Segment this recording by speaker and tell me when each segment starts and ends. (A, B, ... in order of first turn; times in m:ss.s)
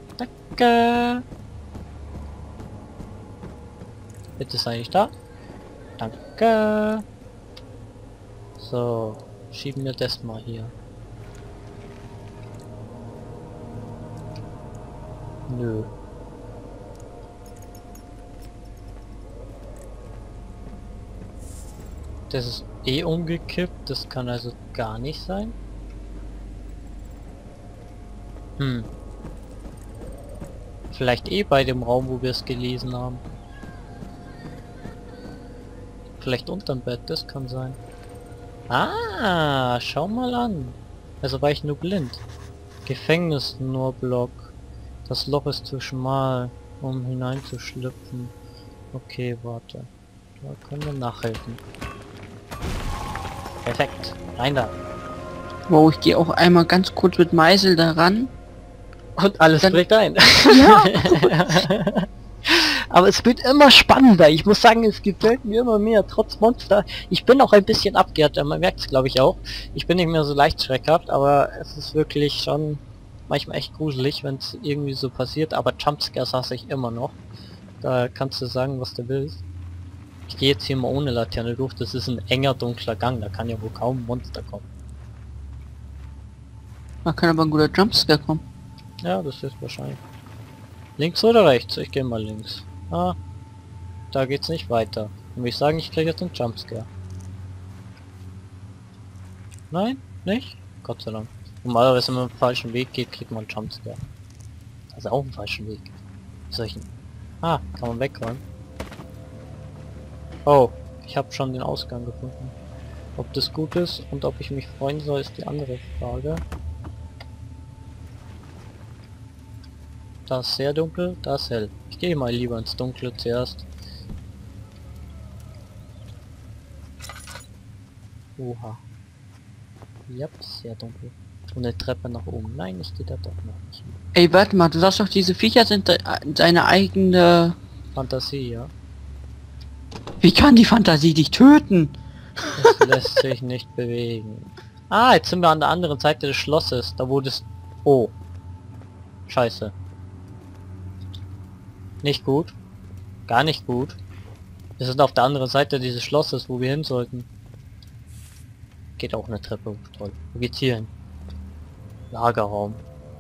0:00.2-0:01.2 A
0:04.4-0:05.1 A
0:06.0-0:07.0 A
0:08.6-0:10.7 A
0:15.5-0:15.9 A
0:22.3-0:25.6 A
0:28.6-0:28.9 A
0:30.9-0:33.2 A
0:36.2-0:37.8 A
0:38.7-0:42.2 A
0:42.9-0:44.5 A
0:45.1-0:48.4 A
0:48.9-0:49.9 A
0:50.4-0:51.6 A
0:53.6-0:54.7 A
0:55.7-0:58.3 B
0:59.2-1:17.2 A
1:00.5-1:01.5 B
1:17.8-1:19.4 A
1:20.3-1:24.6 A
1:27.0-1:28.4 B
1:29.0-1:30.0 A
1:31.0-1:33.2 A
1:34.1-1:36.9 A
1:39.7-1:44.0 A
1:44.9-1:45.9 A
1:46.5-1:46.9 A
1:47.4-1:48.4 A
1:50.5-1:52.6 A
1:53.2-1:56.4 A
2:00.3-2:03.7 A
2:08.4-2:08.8 A
2:10.1-2:14.0 A
2:14.2-2:17.6 B
2:18.0-2:18.7 A
2:20.2-2:22.9 B
2:22.6-2:28.1 A
2:29.3-2:29.7 A
2:32.0-2:32.6 A
2:33.3-2:34.0 A
2:34.8-2:37.3 A
2:39.0-2:40.9 A
2:42.1-2:42.8 A